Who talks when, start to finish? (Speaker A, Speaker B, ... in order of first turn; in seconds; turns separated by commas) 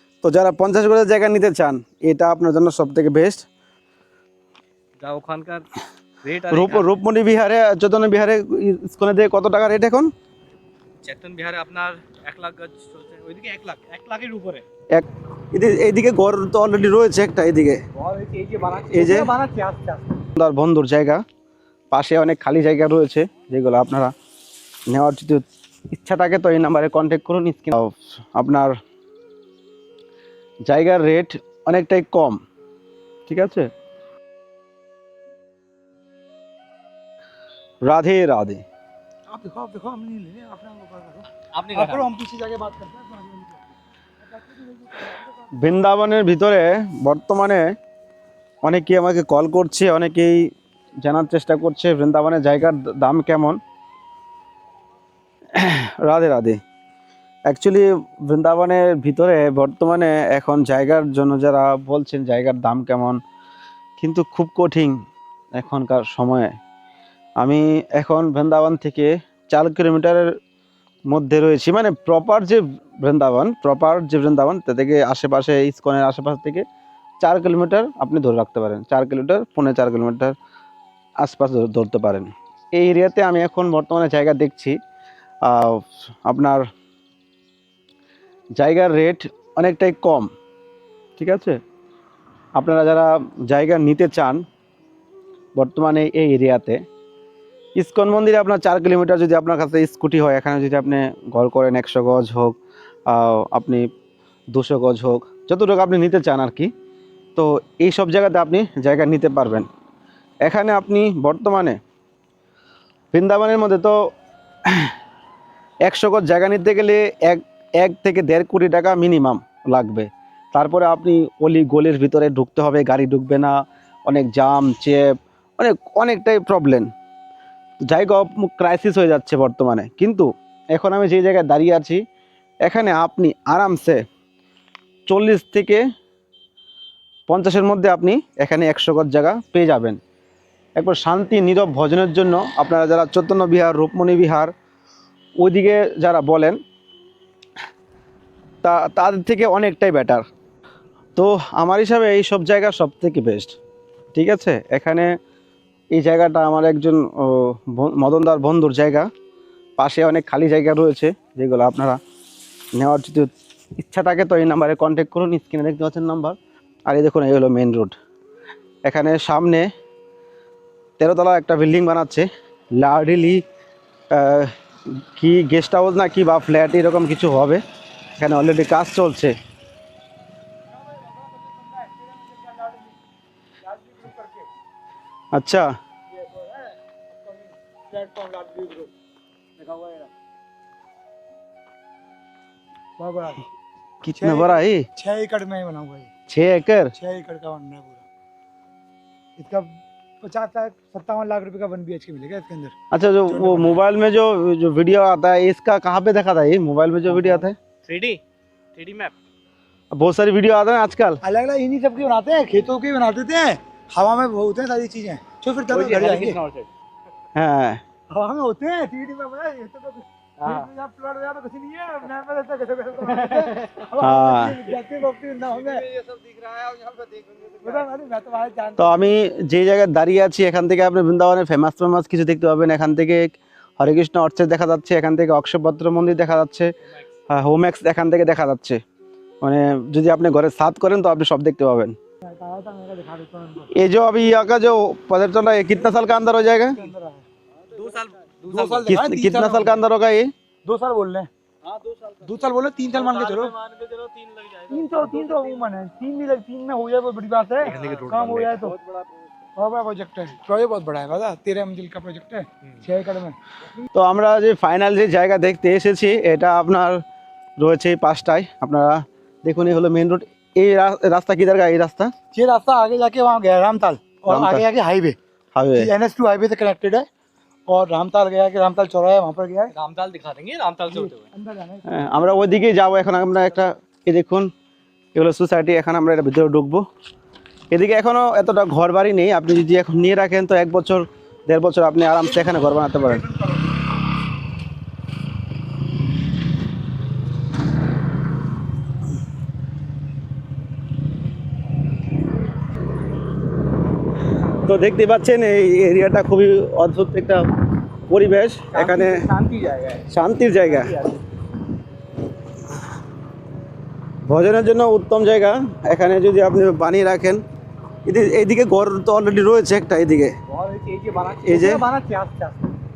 Speaker A: 0.2-3.4, Speaker B: 5.0-5.7, Speaker B: 6.2-7.0, Speaker A: 6.5-10.1, Speaker B: 11.0-14.6, Speaker A: 14.9-17.8, Speaker B: 17.9-20.2, Speaker A: 18.9-19.3, Speaker A: 20.4-21.2, Speaker A: 21.9-24.1, Speaker A: 24.9-28.7, Speaker A: 30.7-32.4, Speaker A: 33.3-33.7, Speaker A: 37.8-38.6, Speaker C: 39.3-45.5, Speaker B: 41.5-42.1, Speaker A: 45.6-47.6, Speaker A: 48.6-50.5, Speaker A: 51.0-53.6, Speaker A: 55.5-56.6, Speaker A: 57.5-63.2, Speaker A: 64.0-64.9, Speaker A: 65.5-66.5, Speaker A: 67.4-70.3, Speaker A: 71.1-76.6, Speaker A: 77.2-80.3, Speaker A: 81.2-84.8, Speaker A: 85.4-86.6, Speaker A: 88.6-90.3, Speaker A: 91.2-91.6, Speaker A: 92.5-94.4, Speaker A: 95.5-96.8, Speaker A: 97.8-102.5, Speaker A: 103.1-103.8, Speaker A: 104.5-106.7, Speaker A: 107.3-109.7, Speaker A: 110.4-111.8, Speaker A: 113.1-113.9, Speaker A: 114.7-114.9, Speaker A: 115.8-123.5, Speaker A: 124.0-126.9, Speaker A: 127.8-132.0, Speaker A: 132.6-134.0, Speaker A: 135.1-135.8, Speaker A: 137.3-140.0, Speaker A: 140.8-144.5, Speaker A: 145.4-146.6, Speaker A: 148.6-150.2, Speaker A: 151.2-153.6, Speaker A: 154.1-155.1, Speaker A: 155.9-159.1, Speaker A: 159.8-162.0, Speaker A: 162.8-166.3, Speaker A: 166.9-167.9, Speaker A: 168.8-169.7, Speaker A: 171.0-172.3, Speaker A: 172.8-173.4, Speaker A: 174.1-174.5, Speaker A: 175.2-177.6, Speaker A: 178.2-179.3, Speaker C: 180.7-183.0, Speaker C: 183.6-184.5, Speaker A: 185.3-185.7, Speaker C: 186.1-188.9, Speaker C: 189.6-190.1, Speaker C: 193.0-193.4, Speaker A: 194.0-194.8, Speaker C: 194.2-196.1, Speaker A: 196.3-196.9, Speaker C: 196.9-198.0, Speaker C: 199.4-202.7, Speaker A: 202.9-207.5, Speaker C: 203.3-203.8, Speaker B: 207.8-208.2, Speaker B: 208.7-209.1, Speaker A: 209.9-211.2, Speaker C: 211.2-216.4, Speaker B: 215.7-216.7, Speaker A: 217.3-217.8, Speaker C: 218.1-225.8, Speaker B: 220.4-220.7, Speaker B: 223.0-223.8, Speaker A: 224.0-224.6, Speaker B: 226.7-227.0, Speaker C: 227.6-229.2, Speaker A: 228.8-236.7, Speaker A: 237.3-238.8, Speaker A: 239.4-241.9, Speaker C: 242.2-243.7, Speaker A: 243.7-246.8, Speaker C: 246.6-247.2, Speaker B: 247.6-248.9, Speaker C: 248.5-249.8, Speaker A: 248.9-250.3, Speaker C: 250.6-251.3, Speaker B: 251.6-252.4, Speaker C: 252.2-253.5, Speaker B: 252.9-255.6, Speaker C: 254.7-258.8, Speaker B: 257.6-259.1, Speaker C: 259.6-263.4, Speaker A: 263.9-267.0, Speaker A: 267.6-272.1, Speaker C: 272.3-275.1, Speaker A: 274.3-274.6, Speaker A: 275.5-275.9, Speaker C: 275.8-277.1, Speaker C: 277.7-279.7, Speaker B: 279.7-281.2, Speaker C: 280.9-283.4, Speaker A: 281.9-284.5, Speaker A: 285.1-286.8, Speaker A: 287.7-293.2, Speaker C: 292.2-293.7, Speaker A: 304.6-307.5, Speaker A: 308.1-309.2, Speaker B: 308.7-311.2, Speaker A: 310.1-310.9, Speaker A: 314.3-317.4, Speaker A: 318.1-320.3, Speaker B: 320.5-322.8, Speaker A: 321.4-321.8